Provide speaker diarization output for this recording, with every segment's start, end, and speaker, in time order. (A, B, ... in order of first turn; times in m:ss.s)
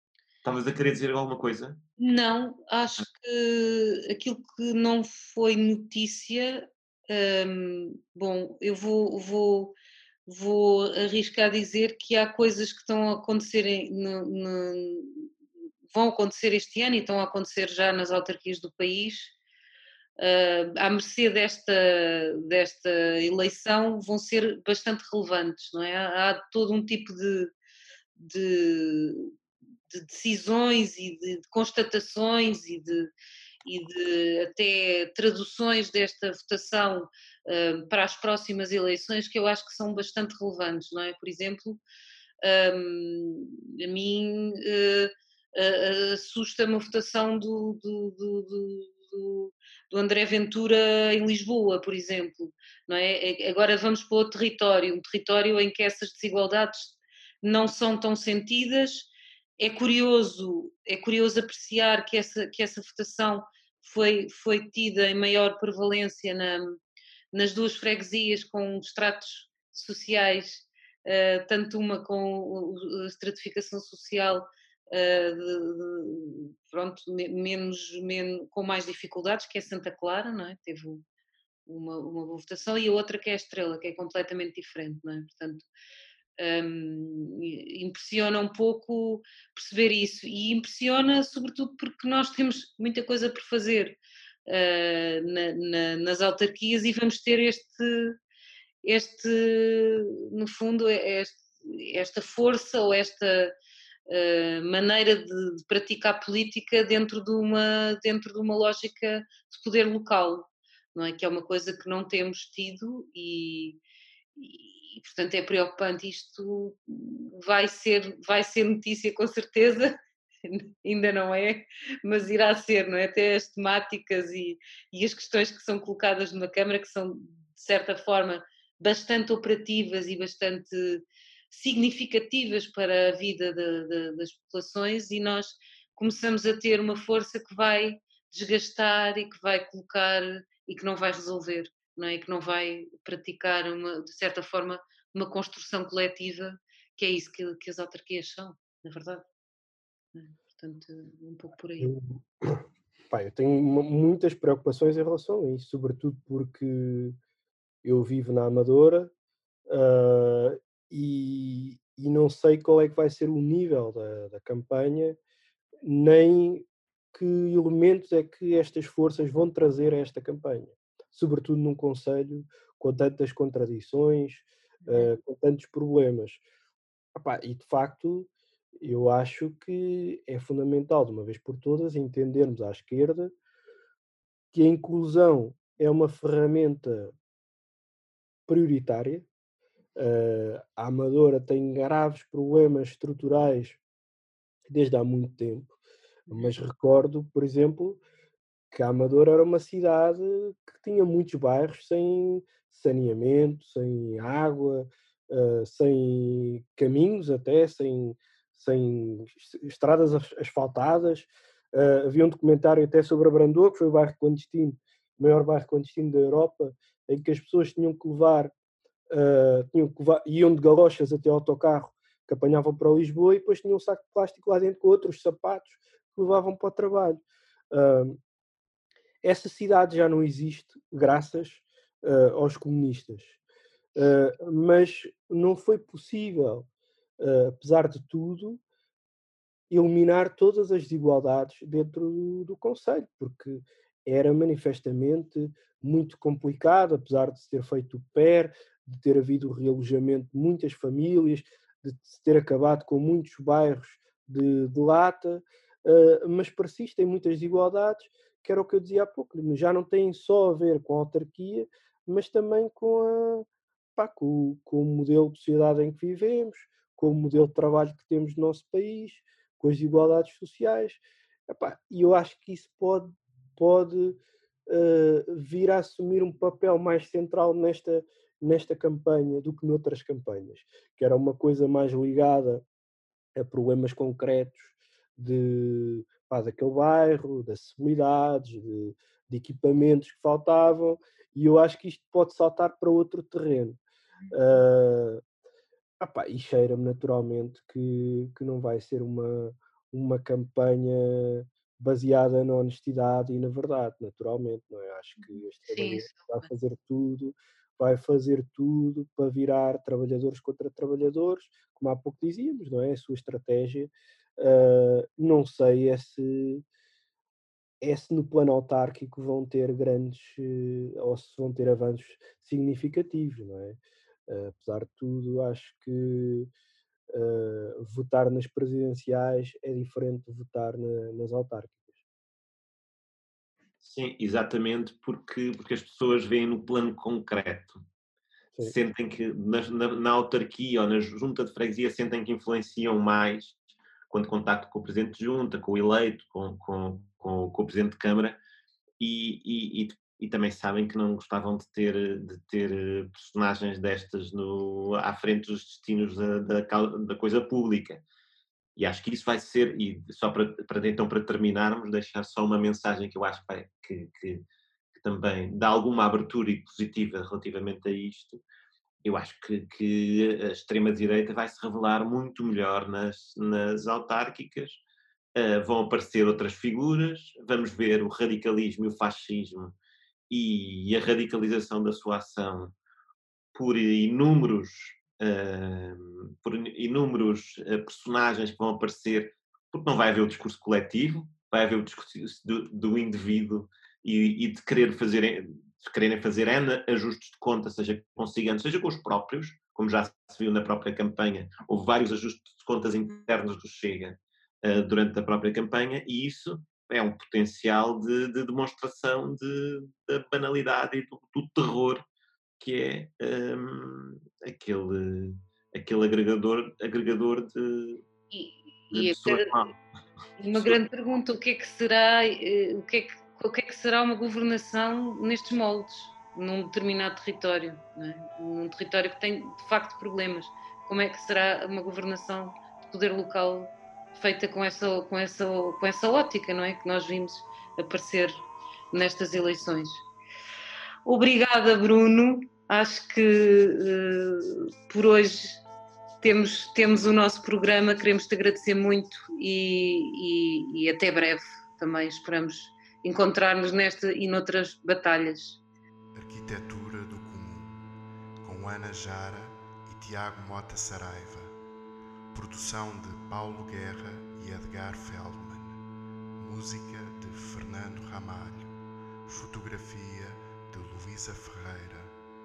0:00.4-0:01.8 A
0:02.0-0:09.7 B
0:10.3-0:15.3 B
0:15.9-0:19.3 B
0:20.2-0:27.5 B
0:28.2-0:29.3 B
0:29.9-0:33.1 B
0:33.6-0:41.8 B
0:42.4-1:06.8 B
1:07.3-1:21.0 B
1:21.6-1:25.7 B
1:26.4-1:38.2 B
1:38.8-1:43.5 B
1:44.1-1:53.8 B
1:54.4-2:29.2 B
2:30.1-2:31.9 B
2:31.8-2:37.2 C
2:37.8-2:39.1 C
2:39.7-2:45.2 C
2:45.8-2:56.4 C
2:54.8-2:55.1 B
2:57.1-3:03.3 C
3:04.5-3:07.1 C
3:08.5-3:09.3 C
3:10.0-3:13.8 C
3:14.7-3:15.8 C
3:16.3-3:16.6 B
3:16.3-3:18.0 C
3:18.7-3:38.5 C
3:39.1-3:48.2 C
3:49.2-3:53.4 C
3:54.0-3:56.7 C
3:57.2-3:58.6 C
3:59.7-4:42.6 C
4:43.3-4:55.2 C
4:54.2-4:54.6 B
4:56.0-5:16.6 C
5:05.2-5:06.5 B
5:17.8-5:26.5 C
5:27.1-5:32.0 C
5:33.8-5:37.8 A
5:38.6-5:48.4 A
5:49.0-5:58.0 A
5:58.8-6:08.4 A
6:09.0-6:14.8 A
6:15.3-6:19.7 A
6:20.3-6:22.7 A
6:23.5-6:52.0 A
6:52.6-6:58.0 A
6:58.3-6:59.6 B
6:58.9-6:59.8 A
7:00.4-7:20.0 B
7:00.4-7:00.8 A
7:21.0-7:25.6 B
7:26.2-7:35.6 B
7:36.1-7:37.8 D
7:38.4-7:41.6 D
7:42.3-7:45.8 D
7:46.4-7:48.7 D
7:49.2-7:52.2 D